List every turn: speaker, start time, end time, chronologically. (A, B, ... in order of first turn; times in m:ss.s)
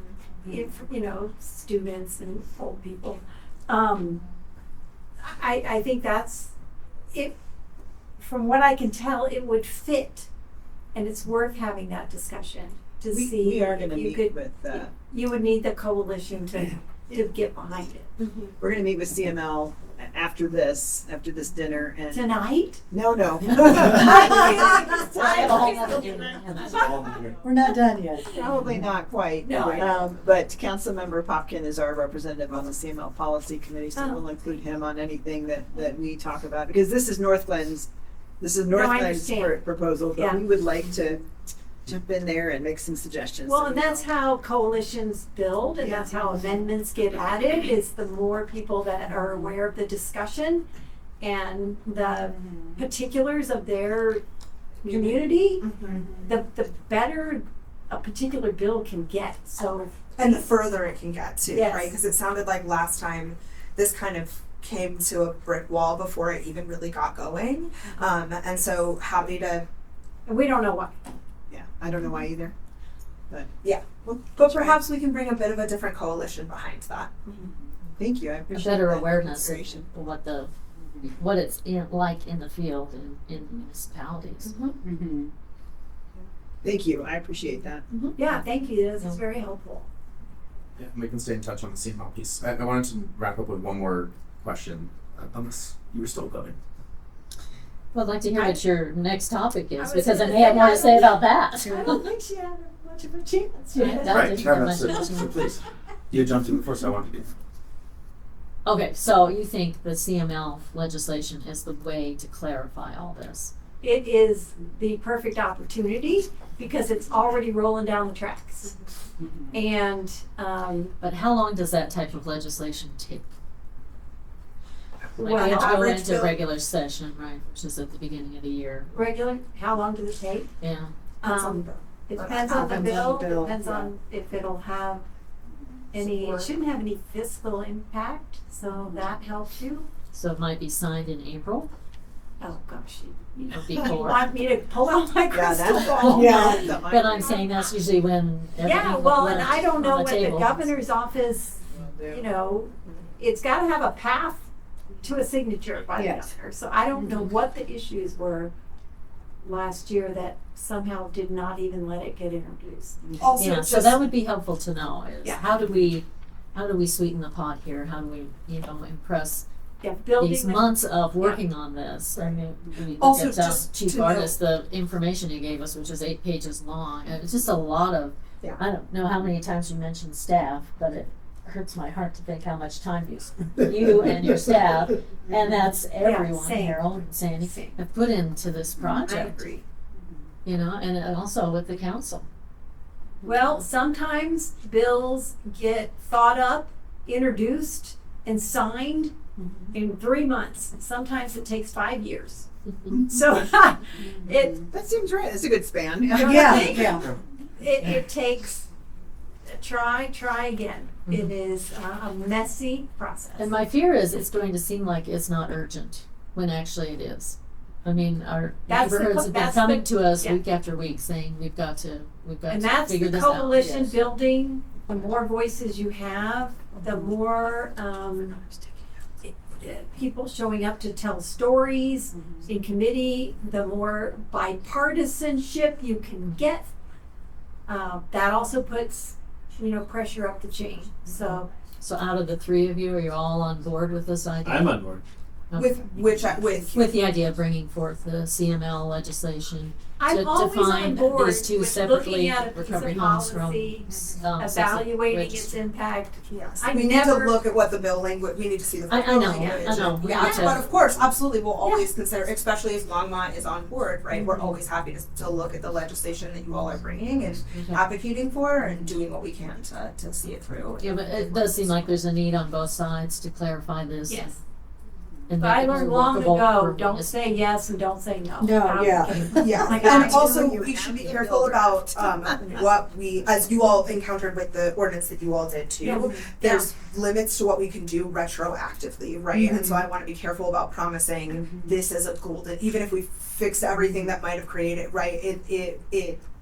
0:00.4-0:04.2 A
0:05.2-0:06.5 A
0:08.2-0:10.3 A
0:10.9-0:18.1 A
0:13.1-0:14.9 B
0:18.2-0:18.5 C
0:18.6-0:26.2 B
0:22.1-0:22.8 A
0:23.8-0:27.2 A
0:25.2-0:26.9 D
0:25.5-0:25.9 E
0:26.8-0:27.3 F
0:27.4-0:28.3 E
0:28.3-0:37.9 B
0:29.4-0:29.9 A
0:29.7-0:30.2 E
0:33.9-0:34.2 A
0:38.4-0:41.2 B
0:38.7-0:40.4 A
0:41.8-0:44.1 B
0:43.4-0:50.6 A
0:45.8-0:46.1 C
0:51.2-0:54.2 A
0:54.8-1:00.0 A
0:55.6-0:56.0 C
1:00.2-1:09.6 C
1:01.5-1:01.9 A
1:10.2-1:11.0 A
1:11.5-1:12.5 B
1:13.6-1:17.4 C
1:14.0-1:14.8 B
1:18.0-1:19.8 B
1:18.5-1:24.6 D
1:24.8-1:25.3 B
1:26.6-1:27.8 B
1:28.2-1:29.9 A
1:30.8-1:36.6 F
1:37.9-1:42.0 D
1:39.8-1:44.7 A
1:43.7-1:45.3 D
1:43.9-1:47.3 F
1:48.6-1:53.5 D
1:53.8-1:58.7 A
1:59.5-2:00.9 A
2:01.0-2:03.2 D
2:05.2-2:06.4 C
2:05.2-2:08.9 D
2:05.2-2:05.9 A
2:08.9-2:10.5 A
2:10.6-2:10.9 D
2:11.2-2:13.1 C
2:11.2-2:15.0 A
2:12.5-2:13.9 E
2:15.9-2:19.9 A
2:20.1-2:21.7 D
2:22.4-2:27.4 A
2:23.5-2:24.3 D
2:25.3-2:27.4 B
2:26.0-2:30.7 D
2:26.1-2:26.6 E
2:28.6-2:34.5 A
2:31.7-2:32.3 B
2:35.0-2:38.5 A
2:36.0-2:36.2 E
2:39.4-2:43.2 A
2:43.2-2:44.0 C
2:43.4-2:49.4 D
2:49.8-2:51.4 A
2:50.2-3:09.5 D
2:53.0-2:54.3 C
3:06.0-3:07.8 A
3:09.0-3:09.6 A
3:10.4-3:12.3 D
3:13.2-3:19.2 A
3:19.7-3:24.6 A
3:24.7-3:26.9 B
3:26.1-3:28.6 A
3:26.1-3:27.1 E
3:29.4-3:33.6 A
3:33.4-3:43.6 D
3:38.7-3:40.4 A
3:42.5-3:48.4 A
3:43.5-3:43.9 E
3:49.2-3:56.7 A
3:57.7-4:01.5 A
4:01.8-4:04.7 D
4:04.4-4:05.0 F
4:05.5-4:05.8 D
4:05.5-4:06.8 C
4:06.7-4:15.6 D
4:10.0-4:17.4 A
4:16.3-4:31.8 C
4:18.9-4:20.6 D
4:19.3-4:20.6 A
4:27.5-4:27.8 D
4:30.8-4:34.3 D
4:34.1-4:34.4 A
4:35.3-4:37.1 D
4:35.4-4:40.5 A
4:38.4-4:39.7 E
4:39.3-4:56.2 C
4:39.7-4:42.9 B
4:45.8-4:46.7 A